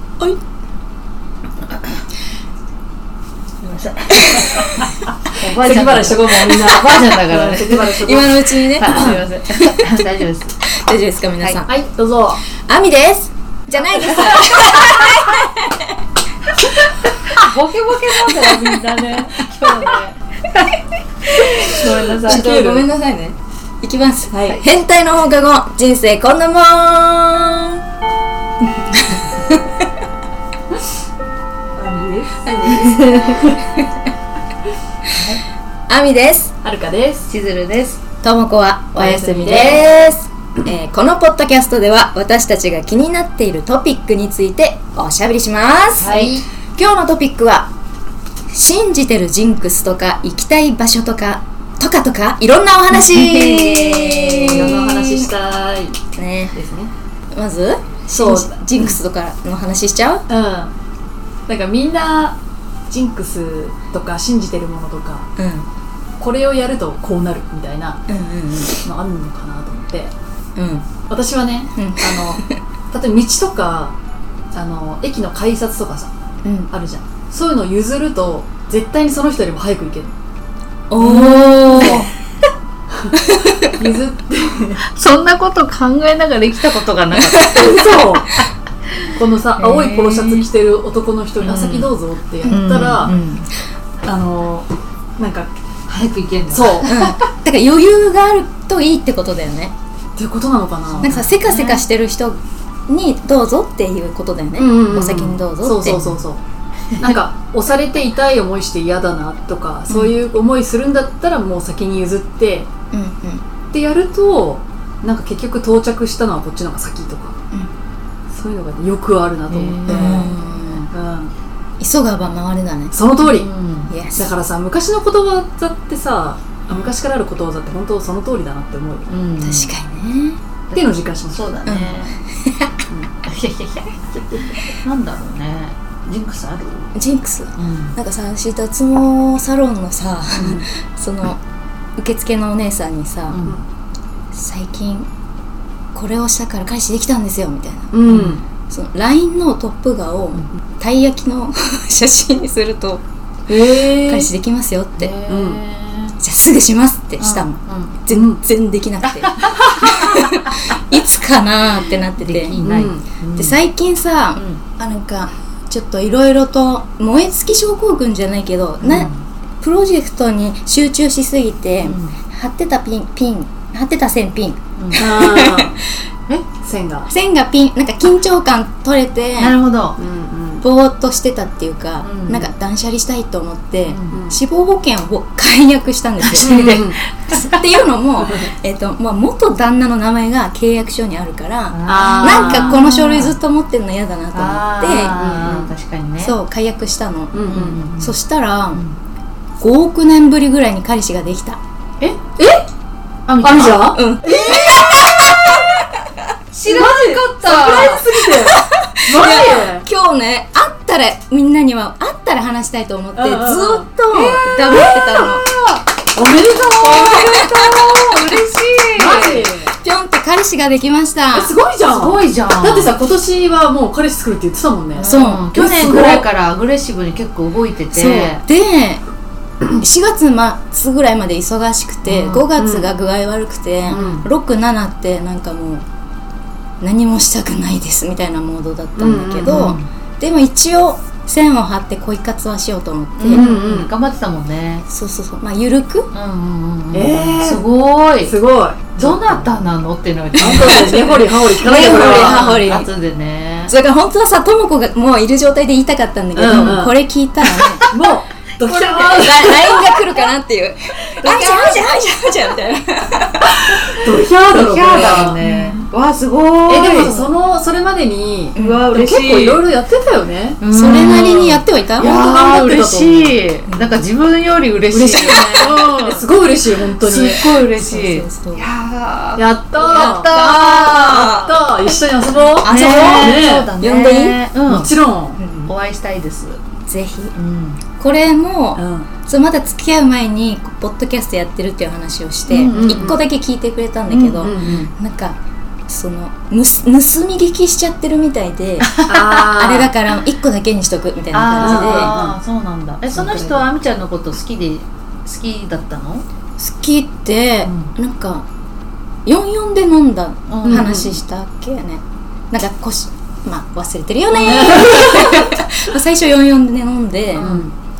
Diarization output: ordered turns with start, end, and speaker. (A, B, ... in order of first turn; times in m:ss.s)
0:03.6-0:08.0 A
0:04.2-0:04.5 B
0:05.5-0:09.2 C
0:08.0-0:10.0 B
0:08.8-0:10.6 A
0:10.6-0:11.7 B
0:11.7-0:12.4 C
0:12.6-0:16.0 B
0:14.0-0:14.8 C
0:17.3-0:20.2 A
0:21.4-0:27.8 B
0:21.4-0:22.5 A
0:21.8-0:22.9 C
0:24.3-0:24.6 C
0:28.8-0:29.8 B
0:31.8-0:32.9 C
0:32.4-0:34.1 B
0:35.1-0:35.4 A
0:35.9-0:36.5 B
0:36.6-0:37.3 C
0:37.3-0:38.0 A
0:38.2-0:47.7 B
0:39.0-0:39.8 C
0:46.0-0:46.4 A
0:46.0-0:46.4 C
0:48.5-0:55.3 B
0:53.2-0:53.8 C
0:53.8-0:54.8 A
0:54.5-0:56.0 C
0:56.1-0:56.5 B
0:56.5-0:56.9 C
0:57.3-1:00.2 B
0:58.1-0:59.0 C
1:00.3-1:00.7 C
1:01.5-1:02.4 C
1:02.9-1:05.3 C
1:05.4-1:05.7 B
1:06.2-1:08.0 C
1:08.1-1:08.9 B
1:08.8-1:10.1 C
1:10.6-1:10.8 B
1:11.1-1:13.9 C
1:11.8-1:12.6 B
1:14.5-1:16.1 C
1:16.4-1:16.7 B
1:16.7-1:20.1 C
1:20.9-1:22.1 B
1:21.0-1:22.1 A
1:21.7-1:22.0 C
1:23.0-1:24.8 C
1:23.5-1:23.8 B
1:24.9-1:27.8 A
1:27.2-1:27.7 B
1:27.4-1:28.4 C
1:29.2-1:33.2 C
1:29.6-1:30.5 A
1:31.4-1:31.9 A
1:32.4-1:33.5 A
1:32.5-1:33.3 B
1:34.0-1:35.5 C
1:35.9-1:37.1 A
1:36.5-1:36.9 C
1:36.9-1:39.7 B
1:40.2-1:41.2 C
1:40.9-1:41.8 A
1:41.0-1:46.0 B
1:44.6-1:46.4 C
1:47.0-1:52.7 C
1:52.9-1:53.4 B
1:53.7-1:57.4 C
1:58.3-2:00.2 C
1:59.5-2:00.8 A
1:59.9-2:00.9 B
2:00.9-2:01.3 C
2:01.8-2:03.0 B
2:02.9-2:03.5 C
2:03.2-2:03.9 A
2:03.9-2:04.3 B
2:04.2-2:09.1 C
2:09.1-2:09.8 A
2:09.4-2:10.4 B
2:10.7-2:12.1 A
2:10.7-2:11.5 C
2:11.6-2:12.7 B
2:13.2-2:17.0 A
2:17.0-2:21.4 B
2:17.6-2:17.9 A
2:20.4-2:20.7 C
2:22.0-2:23.4 B
2:23.3-2:23.6 A
2:24.3-2:25.1 B
2:25.9-2:28.0 B
2:27.9-2:28.4 C
2:28.1-2:28.4 A
2:28.7-2:33.0 B
2:33.5-2:34.3 C
2:33.6-2:35.1 B
2:35.0-2:36.2 A
2:35.3-2:35.6 C
2:36.2-2:42.6 B
2:37.2-2:37.9 A
2:38.1-2:38.4 C
2:39.0-2:40.6 A
2:42.2-2:43.6 A
2:42.6-2:43.0 C
2:43.4-2:49.1 B
2:48.8-2:49.2 A
2:49.6-2:55.7 B
2:51.9-2:52.2 A
2:54.8-2:55.0 A
2:54.9-2:55.8 C
2:56.6-2:57.1 C
2:57.1-2:59.6 B
2:59.4-3:00.0 A
3:00.0-3:00.6 C
3:00.6-3:15.2 B
3:02.0-3:02.5 A
3:03.9-3:04.2 A
3:04.1-3:04.4 C
3:06.2-3:07.6 A
3:06.4-3:07.0 C
3:08.2-3:08.5 C
3:11.7-3:13.4 A
3:11.9-3:12.8 C
3:14.3-3:16.4 A
3:15.0-3:15.7 C
3:16.2-3:18.8 B
3:17.3-3:17.8 C
3:17.4-3:18.2 A
3:19.6-3:21.6 B
3:22.4-3:22.6 C
3:23.3-3:23.9 A
3:23.4-3:25.1 C
3:23.9-3:26.2 B
3:26.5-3:28.0 A
3:26.6-3:29.8 C
3:28.5-3:35.4 B
3:33.2-3:33.9 C
3:34.8-3:38.1 C
3:36.8-3:39.4 A
3:37.1-3:37.4 B
3:39.0-3:39.7 C
3:39.0-3:41.5 B
3:41.3-3:46.3 C
3:41.9-3:42.9 A
3:45.0-3:48.4 A
3:45.0-3:45.5 B
3:47.9-3:49.0 B
3:49.8-3:55.8 B
3:52.1-3:52.9 C
3:53.8-3:54.3 A
3:53.9-3:54.3 C
3:56.8-4:03.5 B
3:59.0-3:59.7 C
3:59.5-3:59.8 A
4:03.2-4:04.8 A
4:03.3-4:03.9 C
4:04.9-4:06.1 B
4:06.1-4:08.4 A
4:06.9-4:07.6 C
4:08.2-4:09.6 C
4:09.0-4:13.7 A
4:10.4-4:12.6 C
4:10.4-4:12.9 B
4:13.7-4:17.9 B
4:16.4-4:16.8 A
4:16.5-4:16.9 C
4:17.6-4:18.0 A
4:17.9-4:19.8 C
4:18.6-4:19.9 A
4:19.1-4:23.6 B
4:21.2-4:22.0 A
4:21.2-4:21.7 C
4:23.6-4:25.4 C
4:24.5-4:27.2 A
4:26.7-4:31.3 C
4:28.6-4:28.9 B
4:28.6-4:29.6 A
4:30.6-4:36.2 A
4:30.7-4:32.2 B
4:32.0-4:33.4 C
4:34.9-4:37.7 C
4:36.9-4:41.6 A
4:37.8-4:38.7 B
4:39.4-4:43.7 C
4:40.0-4:41.4 B
4:42.6-4:44.9 A
4:42.7-4:44.4 B
4:44.7-4:45.4 C
4:45.4-4:45.7 B
4:45.7-4:46.6 A
4:46.9-4:47.4 B
4:47.4-4:47.8 A
4:48.0-5:02.1 B
4:48.8-4:49.1 C
4:52.5-4:53.2 A
4:52.7-4:53.2 C
4:54.1-4:54.8 A
4:54.3-4:54.9 C
4:58.8-4:59.5 A
4:59.1-4:59.9 C
5:01.3-5:06.2 A
5:01.6-5:02.4 C
5:03.1-5:03.7 C
5:06.6-5:08.5 B
5:09.2-5:17.6 B
5:10.5-5:10.9 A
5:10.7-5:11.2 C
5:14.4-5:15.4 C
5:17.4-5:17.7 C
5:17.4-5:17.7 A